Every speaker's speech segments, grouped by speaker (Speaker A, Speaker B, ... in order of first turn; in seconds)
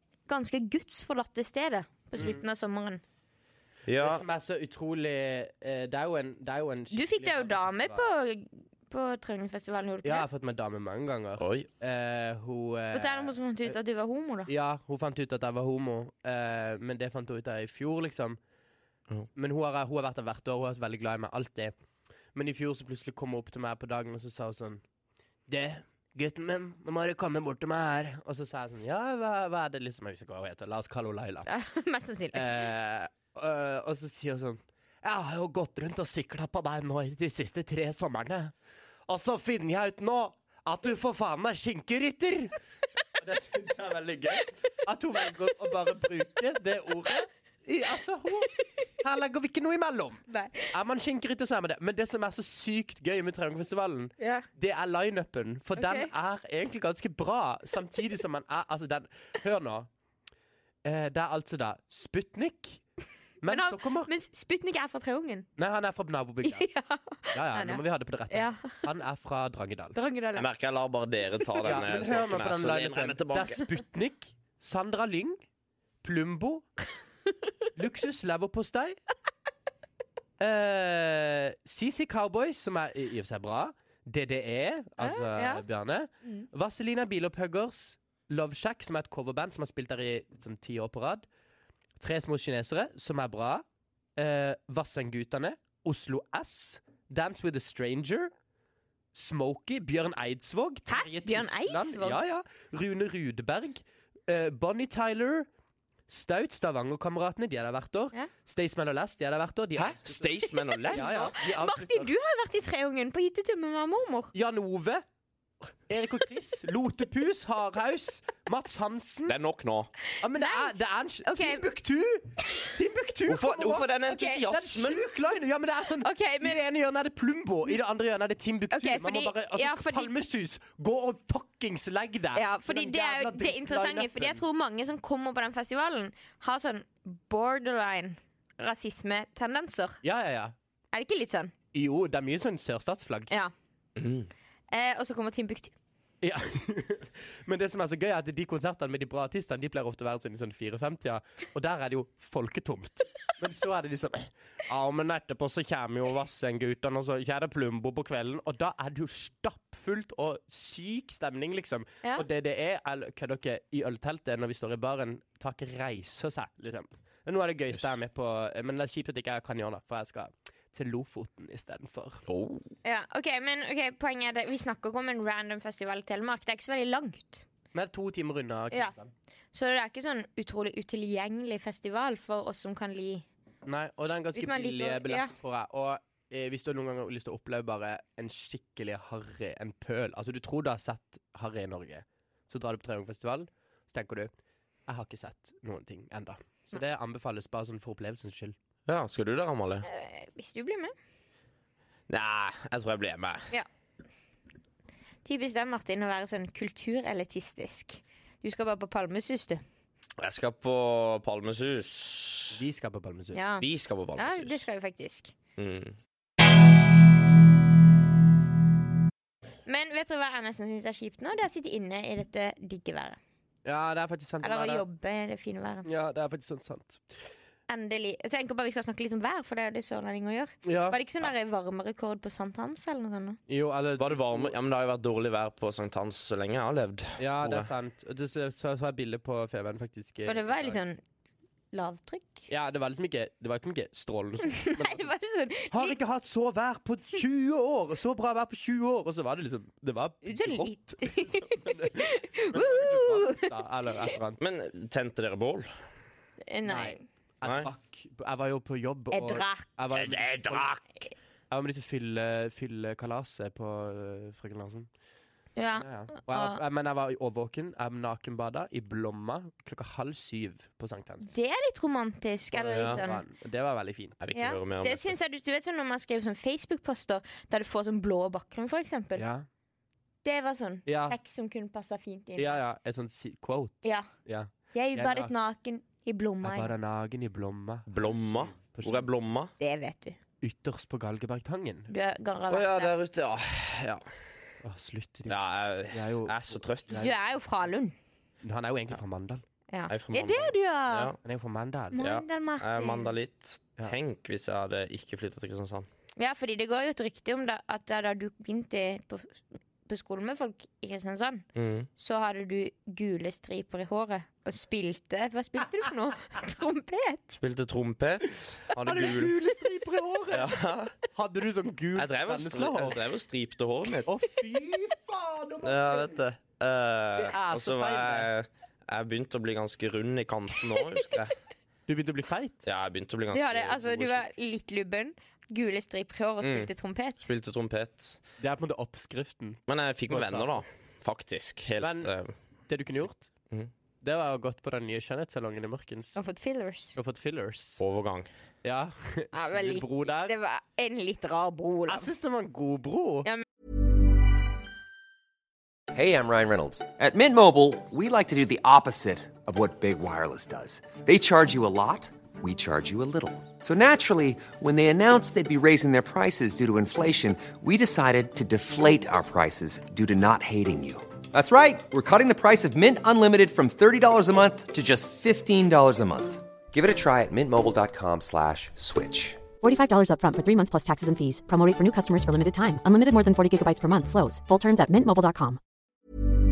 Speaker A: 0.3-3.0, 6.9-10.3, 12.9-14.5, 31.5-32.6, 50.3-50.7, 54.2-54.5, 55.8-56.1, 63.5-65.5, 66.4-68.8, 69.9-70.5, 85.0-85.6, 100.9-102.2, 110.7-114.3, 120.3-120.7, 121.2-121.6, 124.1-124.4, 126.0-126.6, 128.7-130.1, 132.3-140.0, 140.9-141.5, 144.7-145.7, 172.8-177.4, 179.5-183.2, 184.3-185.3, 199.8-200.9, 205.2-209.6, 213.3-215.3, 219.7-223.2, 224.4-225.9, 227.7-233.4, 240.2-241.0, 241.7-242.5, 244.5-245.9, 250.2-253.5, 256.5-257.0, 259.1-259.7, 265.6-266.6, 271.2-273.2, 274.3-279.2, 280.2-282.6, 284.7-286.7, 289.6-290.2, 291.9-292.9, 296.9-297.9, 299.7-301.1, 301.9-303.1, 306.2-311.4, 312.0-317.4, 333.3-337.2, 346.1-346.9, 349.3-352.1
Speaker B: 2.1-2.4, 4.0-8.1, 10.0-13.7, 14.5-18.4, 19.3-21.7, 22.3-24.8, 25.5-31.5, 32.3-38.5, 39.1-42.5, 43.2-59.9, 60.8-62.8, 63.4-64.1, 65.6-66.7, 67.3-70.0, 71.6-75.4, 76.0-76.7, 77.8-79.0, 80.4-91.2, 92.0-93.6, 94.2-98.3, 99.1-105.5, 106.1-110.3, 110.9-112.1, 114.3-115.0, 115.9-119.3, 120.2-134.4, 140.0-140.5, 141.7-143.3, 146.2-172.2, 177.7-179.1, 183.7-194.3, 194.9-198.6, 212.5-213.4, 223.6-224.8, 225.8-227.0, 230.6-231.0, 233.5-234.5, 237.2-240.8, 242.5-245.1, 245.7-254.4, 256.6-260.7, 261.5-264.9, 265.8-271.3, 272.5-274.2, 279.1-279.4, 280.9-281.2, 282.4-285.3, 286.4-289.1, 290.4-291.9, 294.6-295.4, 295.9-297.1, 298.4-299.4, 301.2-302.0, 318.7-320.5, 321.1-323.0, 324.0-326.2, 327.1-328.3, 331.9-332.7, 338.4-340.6, 341.8-342.1, 342.7-343.3, 344.0-346.2, 346.9-347.8, 348.6-350.3, 351.9-353.3
Speaker C: 3.9-4.2, 11.4-11.7, 70.3-73.6, 109.8-111.3, 119.3-119.9, 123.3-125.1, 143.9-144.3, 172.3-172.7, 198.9-199.8, 202.1-203.5, 210.2-212.6, 213.6-214.6, 215.6-216.0, 234.0-237.7, 254.4-255.7, 257.4-257.7, 259.9-260.8, 272.7-273.0, 274.2-275.1, 287.9-289.5, 292.5-294.1, 295.3-297.0, 299.9-301.2, 301.9-305.9, 311.5-311.9, 317.4-319.4, 320.3-320.9, 321.9-324.2, 325.6-331.4, 332.6-334.2, 336.4-338.2, 339.7-342.3, 347.8-348.3
Speaker D: 355.9-379.5
Speaker E: 379.6-385.6